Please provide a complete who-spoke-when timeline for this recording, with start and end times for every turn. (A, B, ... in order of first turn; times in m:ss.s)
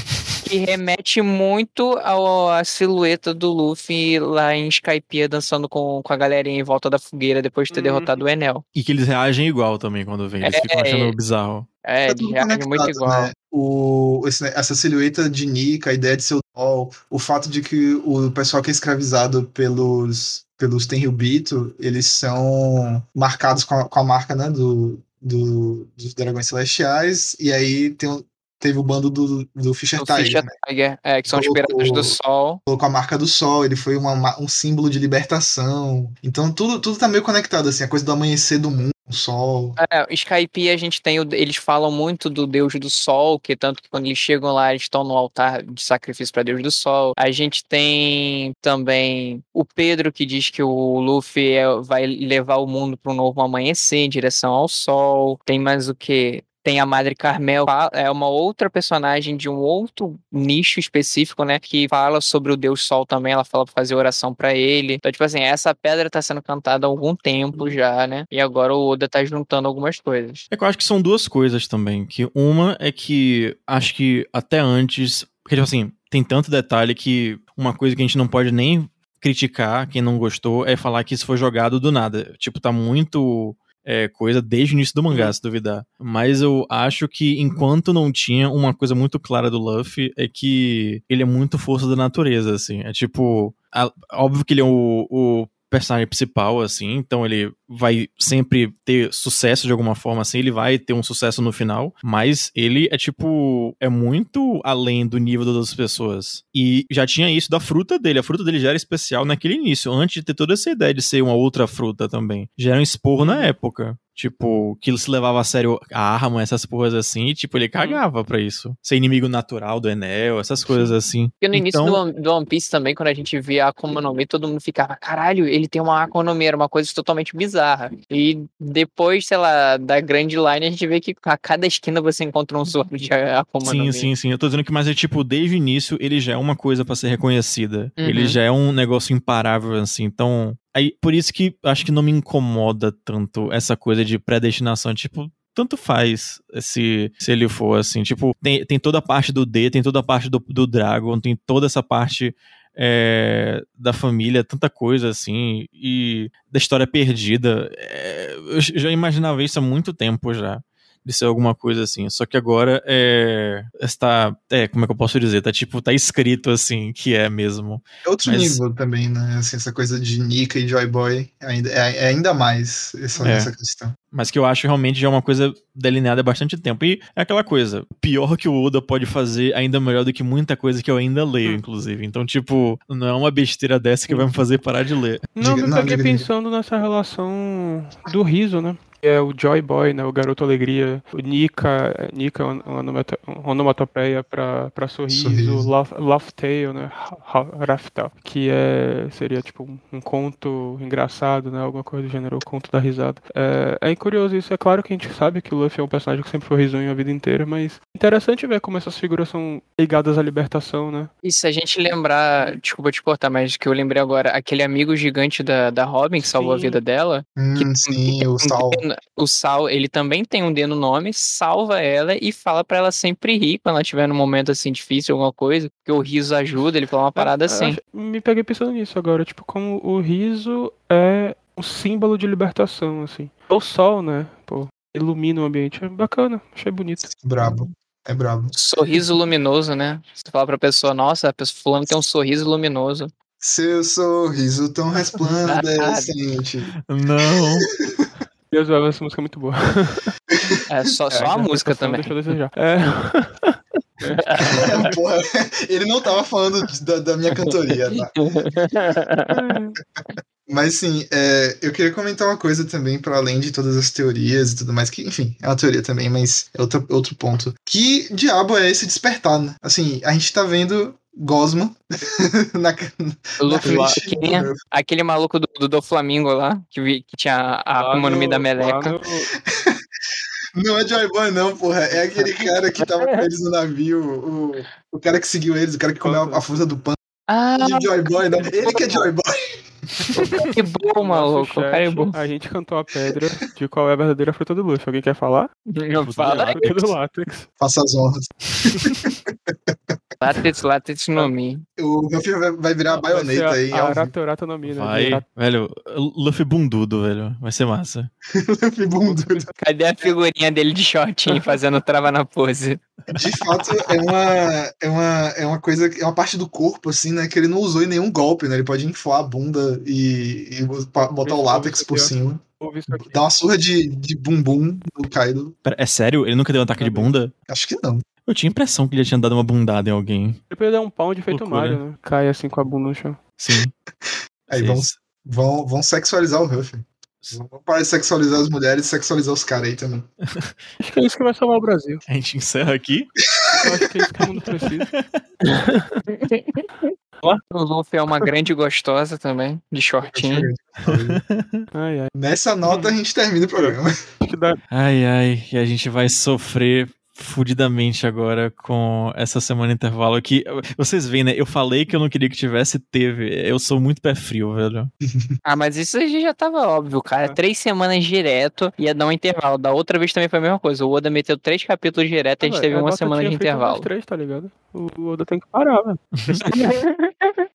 0:00.4-0:08.6 A
0:07.7-0:08.2 B
0:08.7-0:11.7 C
0:10.4-0:11.1 A
0:11.8-0:13.3 A
0:12.1-0:30.5 D
0:30.0-0:32.6 A
0:31.3-0:32.2 D
0:32.7-0:39.8 D
0:39.8-1:10.4 A
1:10.5-2:02.0 C
1:53.2-1:53.5 B
2:00.7-2:00.9 B
2:01.4-2:14.1 A
2:13.6-2:48.6 C
2:18.0-2:18.4 A
2:48.0-2:54.0 D
2:53.2-2:53.5 C
2:54.1-3:05.2 C
3:05.4-3:31.1 B
3:05.4-3:06.3 D
3:15.1-3:15.7 D
3:31.2-3:47.8 A
3:36.2-3:36.8 B
3:37.4-3:38.8 D
3:47.2-3:57.1 B
3:57.0-3:58.5 D
3:58.5-4:03.1 A
4:03.4-4:06.7 D
4:05.5-4:06.1 A
4:06.9-4:07.7 C
4:08.5-4:10.1 B
4:10.3-4:10.6 D
4:10.7-4:12.1 A
4:11.1-4:14.7 B
4:14.0-4:14.8 A
4:14.5-4:18.2 D
4:17.9-4:19.4 A
4:19.3-4:19.8 B
4:20.0-4:34.6 D
4:33.4-4:39.0 A
4:37.8-4:39.3 B
4:39.5-4:39.8 D
4:40.6-4:47.0 D
4:42.2-4:43.2 A
4:46.0-4:46.5 B
4:47.3-4:49.1 A
4:47.6-4:49.4 D
4:50.4-4:52.2 A
4:51.0-4:55.5 B
4:55.7-4:56.8 A
4:56.0-4:56.9 C
4:56.3-4:57.5 B
4:57.6-4:59.7 D
5:00.2-5:01.6 A
5:01.8-5:04.1 D
5:02.9-5:05.2 B
5:04.6-5:08.1 C
5:08.3-5:09.5 D
5:09.0-5:09.5 B
5:09.6-5:12.8 A
5:13.1-5:25.5 D
5:21.0-5:23.1 B
5:25.6-5:27.3 C
5:26.8-5:27.1 B
5:27.5-5:28.0 D
5:28.2-5:30.4 C
5:30.5-5:33.2 B
5:31.3-5:31.8 C
5:33.4-5:33.7 C
5:34.0-5:40.1 D
5:34.5-5:34.9 C
5:40.8-5:42.0 B
5:42.0-5:43.1 C
5:43.6-5:44.9 B
5:44.6-5:45.2 C
5:45.4-5:46.0 B
5:46.1-5:46.9 A
5:47.5-5:50.5 A
5:50.0-5:51.2 D
5:50.8-5:51.6 C
5:51.7-5:52.1 B
5:52.1-5:54.0 D
5:52.6-5:52.9 B
5:53.6-5:54.6 B
5:54.7-6:04.9 C
6:05.1-6:05.3 D
6:05.4-6:13.9 A
6:12.4-6:16.7 B
6:16.2-6:16.5 C
6:16.5-6:17.3 A